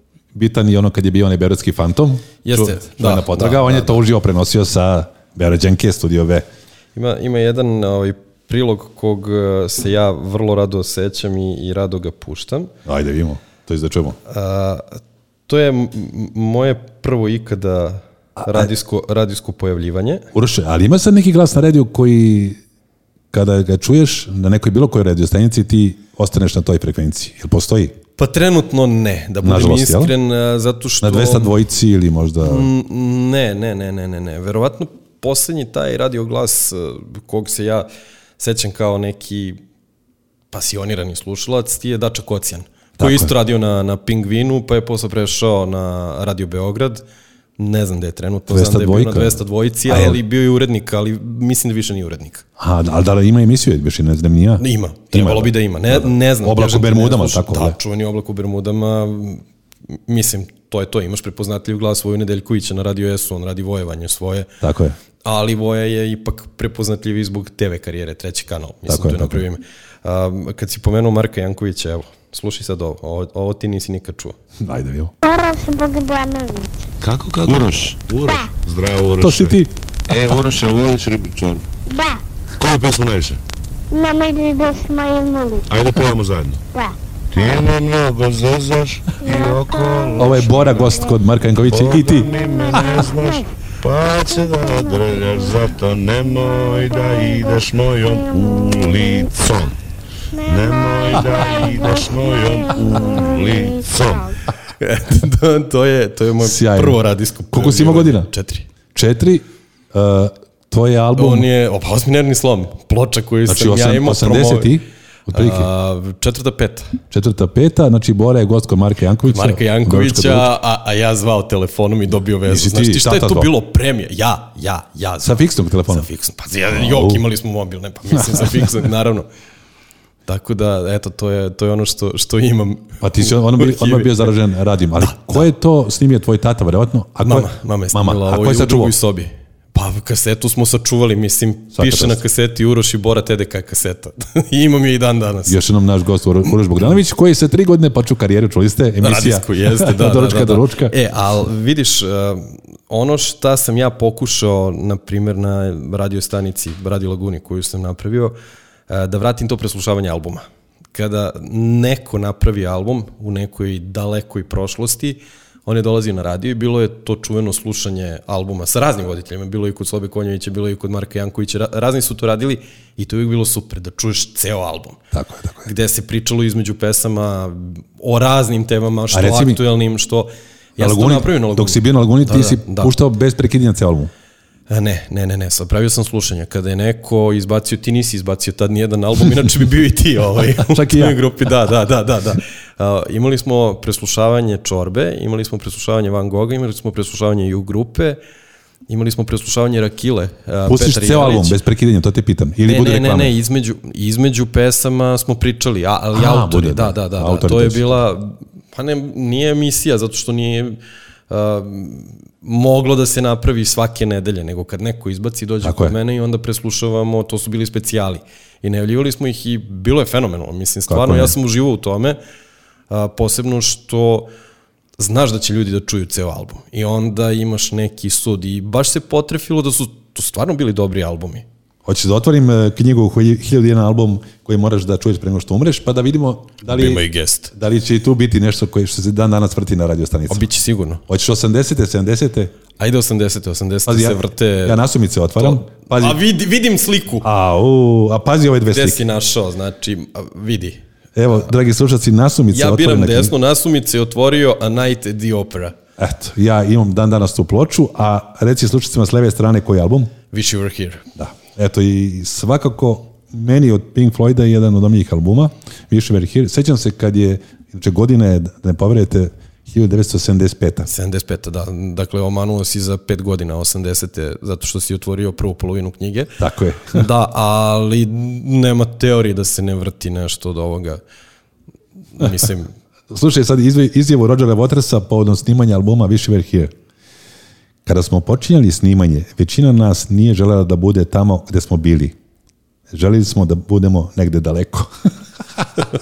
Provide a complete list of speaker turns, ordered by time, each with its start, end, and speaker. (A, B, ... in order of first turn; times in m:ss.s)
0:00.3-0:06.5 A
0:02.4-0:04.0 B
0:07.0-0:12.7 B
0:12.8-0:14.2 A
0:14.3-0:20.3 B
0:18.4-0:18.7 A
0:20.3-0:22.6 A
0:23.3-0:28.0 A
0:28.2-0:31.5 B
0:29.4-0:30.1 A
0:31.0-0:32.7 A
0:32.4-0:37.9 B
0:38.4-0:39.6 B
0:40.5-0:47.0 B
0:43.0-0:43.3 A
0:47.6-0:52.4 B
0:48.5-0:50.2 A
0:52.6-0:57.8 A
0:54.6-0:59.4 B
1:00.0-1:04.5 B
1:04.6-1:05.0 A
1:05.2-1:14.4 B
1:08.9-1:09.4 A
1:14.6-1:15.1 A
1:15.2-1:16.7 C
1:17.0-1:19.6 D
1:19.2-1:19.7 A
1:20.1-1:21.6 D
1:21.9-1:22.2 C
1:22.6-1:23.4 D
1:23.9-1:25.6 C
1:25.7-1:26.6 D
1:27.3-1:30.9 D
1:30.2-1:32.3 A
1:31.7-1:39.7 D
1:40.4-1:44.3 D
1:44.8-1:48.7 B
1:46.4-1:48.3 A
1:48.9-1:51.5 A
1:51.2-1:54.7 B
1:53.5-1:55.7 A
1:55.3-1:57.0 B
1:57.1-2:00.5 A
1:59.3-2:09.3 B
2:02.5-2:03.5 A
2:05.2-2:06.1 A
2:06.7-2:07.2 A
2:08.3-2:08.6 A
2:10.3-2:14.3 B
2:13.0-2:18.9 A
2:15.0-2:15.5 B
2:17.2-2:25.6 B
2:21.8-2:22.2 A
2:25.5-2:30.9 A
2:29.0-2:38.4 B
2:38.9-2:55.0 B
2:55.1-2:55.7 A
2:55.6-3:02.9 B
2:59.1-2:59.6 A
3:00.8-3:04.1 A
3:04.7-3:18.2 B
3:10.7-3:11.2 A
3:18.9-3:21.6 B
3:20.7-3:23.3 A
3:22.7-3:30.8 B
3:26.1-3:28.0 A
3:31.3-3:42.2 B
3:35.6-3:36.0 A
3:40.9-3:41.4 A
3:42.9-3:44.3 B
3:45.0-3:51.4 B
3:51.8-4:00.5 A
3:56.7-3:57.5 B
4:00.3-4:01.0 B
4:01.1-4:02.5 A
4:02.8-4:04.8 B
4:03.9-4:06.2 A
4:05.4-4:07.3 B
4:07.2-4:09.0 A
4:08.7-4:10.8 B
4:11.2-4:13.3 A
4:12.5-4:15.8 B
4:16.0-4:20.1 A
4:20.3-4:21.0 B
4:21.2-4:30.9 A
4:30.9-4:36.4 B
4:36.4-4:37.0 A
4:36.9-4:41.0 B
4:42.2-4:42.7 B
4:43.1-4:46.7 A
4:47.9-4:52.2 A
4:52.9-4:55.1 A